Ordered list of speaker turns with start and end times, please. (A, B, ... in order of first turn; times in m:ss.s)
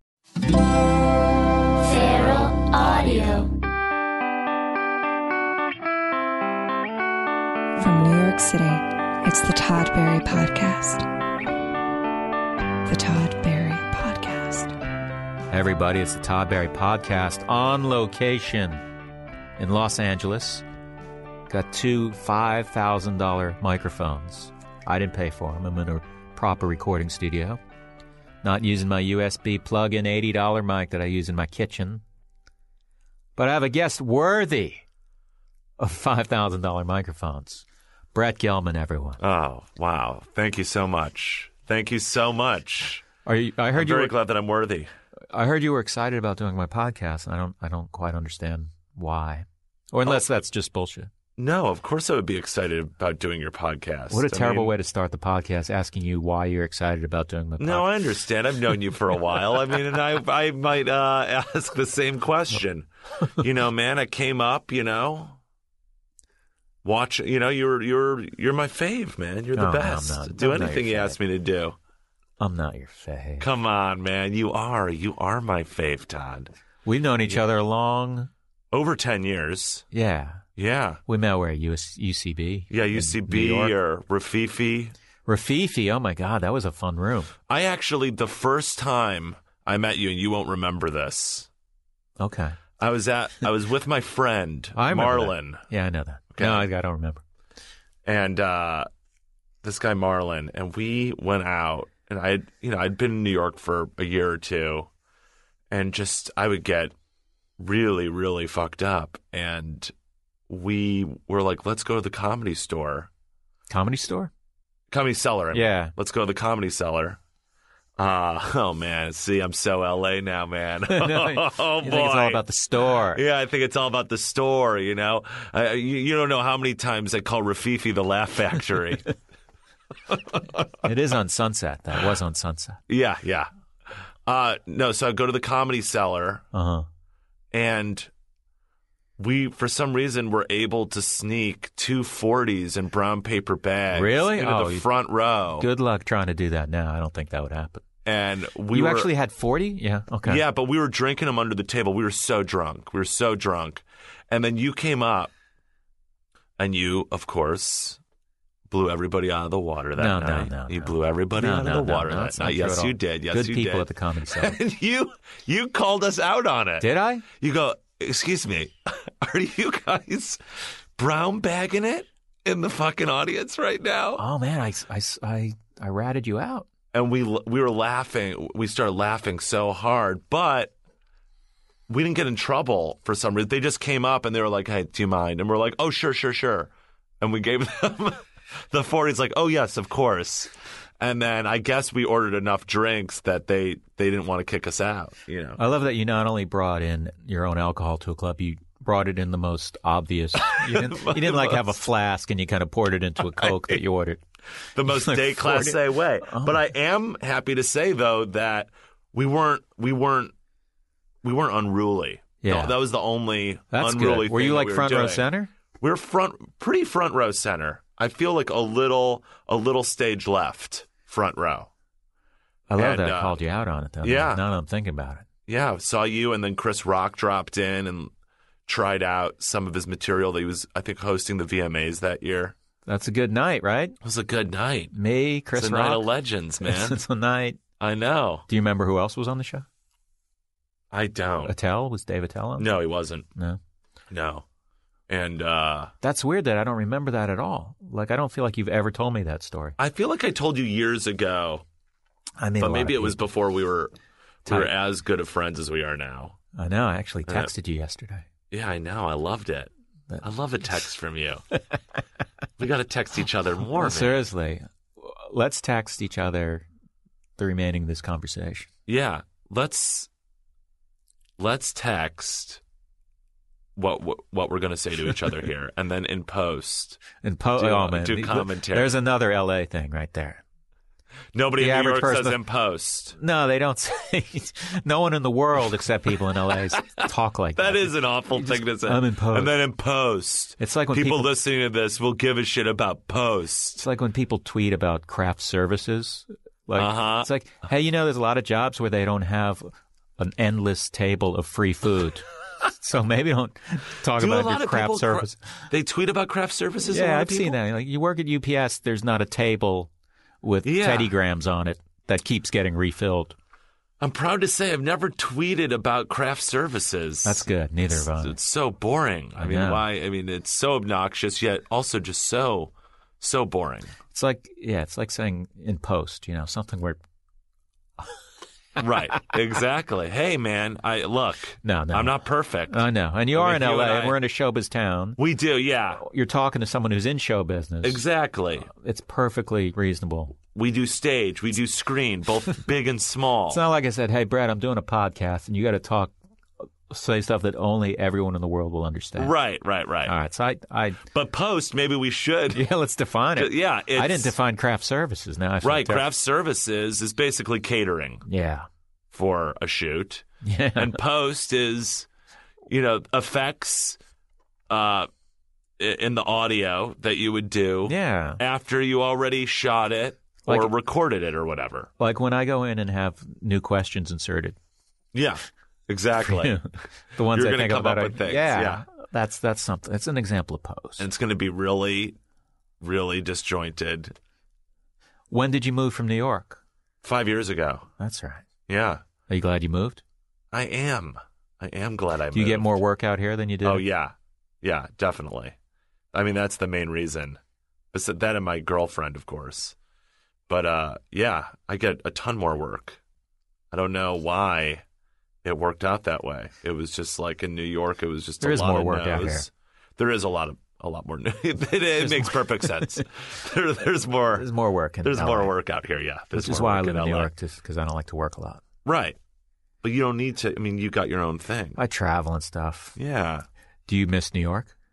0:01.8-0:03.5 A
0:07.8-0:11.1 A
0:12.8-0:14.8 A
0:15.5-0:18.8 B
0:19.6-0:20.6 B
0:21.5-0:27.6 B
0:28.4-0:32.0 B
0:33.4-0:34.8 B
0:35.8-0:39.2 B
0:39.2-0:43.0 C
0:43.2-0:44.2 B
0:43.7-0:44.9 C
0:45.3-0:51.1 B
0:51.4-0:54.7 C
0:54.1-0:57.9 B
0:57.6-1:05.4 C
1:06.8-1:11.8 C
1:09.5-1:11.2 B
1:12.4-1:13.5 B
1:13.4-1:16.5 C
1:16.8-1:18.3 B
1:18.7-1:19.8 C
1:19.9-1:20.4 B
1:20.6-1:21.0 C
1:21.1-1:23.7 B
1:22.7-1:24.9 C
1:25.2-1:27.3 B
1:27.5-1:31.5 C
1:32.2-1:32.6 B
1:32.8-1:35.6 C
1:34.7-1:37.2 B
1:36.3-1:36.7 C
1:38.0-1:38.9 C
1:39.6-1:44.9 C
1:45.7-1:46.9 C
1:47.6-1:49.9 C
1:50.5-1:53.1 C
1:53.7-1:54.3 B
1:54.9-1:57.2 C
1:55.5-1:55.9 B
1:58.0-2:09.0 C
2:00.9-2:03.2 B
2:10.1-2:10.6 C
2:10.8-2:12.8 B
2:12.9-2:16.4 C
2:16.5-2:16.8 B
2:17.5-2:18.1 C
2:19.2-2:25.7 C
2:23.9-2:24.9 B
2:25.6-2:27.8 B
2:28.0-2:29.1 C
2:28.7-2:30.4 B
2:30.2-2:35.3 C
2:36.6-2:38.0 C
2:38.7-2:54.2 C
2:40.0-2:44.6 B
2:46.8-2:47.2 B
2:54.2-2:56.7 B
2:56.9-3:00.7 C
3:01.9-3:15.6 C
3:15.6-3:24.2 B
3:20.6-3:21.7 C
3:23.4-3:23.8 C
3:24.7-3:30.3 C
3:24.9-3:26.6 B
3:31.2-3:41.7 C
3:32.4-3:32.8 B
3:33.7-3:35.5 B
3:42.7-3:45.2 B
3:42.8-3:43.4 C
3:44.0-3:44.4 C
3:45.5-3:48.1 C
3:48.7-3:52.5 C
3:52.8-3:54.0 B
3:54.0-3:54.9 C
3:54.9-3:56.1 B
3:55.6-3:57.0 C
3:56.6-3:57.6 B
3:57.8-3:58.4 C
3:58.5-3:59.6 B
4:00.9-4:01.5 C
4:01.4-4:02.7 B
4:02.6-4:03.3 C
4:04.1-4:04.4 C
4:05.1-4:05.9 C
4:06.0-4:09.8 B
4:09.8-4:11.6 C
4:12.4-4:13.2 B
4:12.6-4:13.9 C
4:14.4-4:14.7 B
4:14.4-4:16.4 C
4:16.5-4:18.2 B
4:18.5-4:19.7 C
4:20.2-4:21.4 C
4:22.6-4:24.2 C
4:23.8-4:26.6 B
4:27.4-4:28.7 B
4:28.9-4:30.1 C
4:31.4-4:32.6 C
4:33.8-4:37.0 C
4:37.2-4:40.4 B
4:37.6-4:38.9 C
4:41.3-4:43.2 C
4:41.6-4:42.4 B
4:43.2-4:49.6 B
4:47.6-4:53.8 C
4:50.6-4:51.3 B
4:53.8-5:05.4 B
4:56.8-4:57.3 C
5:04.2-5:07.6 C
5:06.8-5:09.9 B
5:10.4-5:13.4 B
5:10.6-5:11.1 C
5:14.0-5:17.4 C
5:17.2-5:18.4 B
5:18.2-5:23.9 C
5:19.4-5:19.8 B
5:24.1-5:27.0 B
5:28.8-5:34.2 C
5:31.6-5:35.2 B
5:35.2-5:36.0 C
5:36.0-5:38.0 B
5:37.8-5:38.7 C
5:38.6-5:40.3 B
5:40.5-5:43.6 C
5:43.5-5:49.3 B
5:49.2-5:50.1 C
5:50.0-5:51.0 B
5:51.1-5:52.7 C
5:52.5-5:56.1 B
5:53.4-5:54.3 C
5:55.6-5:58.2 C
5:58.2-5:58.6 B
5:59.1-6:00.2 C
6:00.4-6:01.0 B
6:00.8-6:02.1 C
6:02.6-6:04.0 C
6:04.7-6:05.1 C
6:05.8-6:11.9 C
6:07.9-6:08.4 B
6:10.5-6:10.7 B
6:12.0-6:14.6 B
6:15.1-6:16.6 C
6:16.2-6:21.0 B
6:17.3-6:18.8 C
6:21.0-6:22.2 C
6:22.8-6:24.2 C
6:25.3-6:26.6 B
6:27.0-6:27.9 C
6:28.0-6:28.4 B
6:28.7-6:29.0 C
6:29.3-6:30.0 B
6:30.5-6:32.8 C
6:32.3-6:33.8 B
6:33.6-6:35.5 C
6:36.1-6:37.4 C
6:37.9-6:39.8 C
6:40.5-6:43.0 C
6:43.7-6:44.8 C
6:45.4-6:54.5 C
6:48.4-6:49.5 B
6:52.0-6:53.0 B
6:54.4-6:55.5 B
6:55.0-6:57.3 C
6:56.3-6:58.6 B
6:58.8-6:59.2 C
6:59.8-7:01.8 C
7:01.8-7:03.0 B
7:03.0-7:03.4 C
7:03.9-7:04.7 B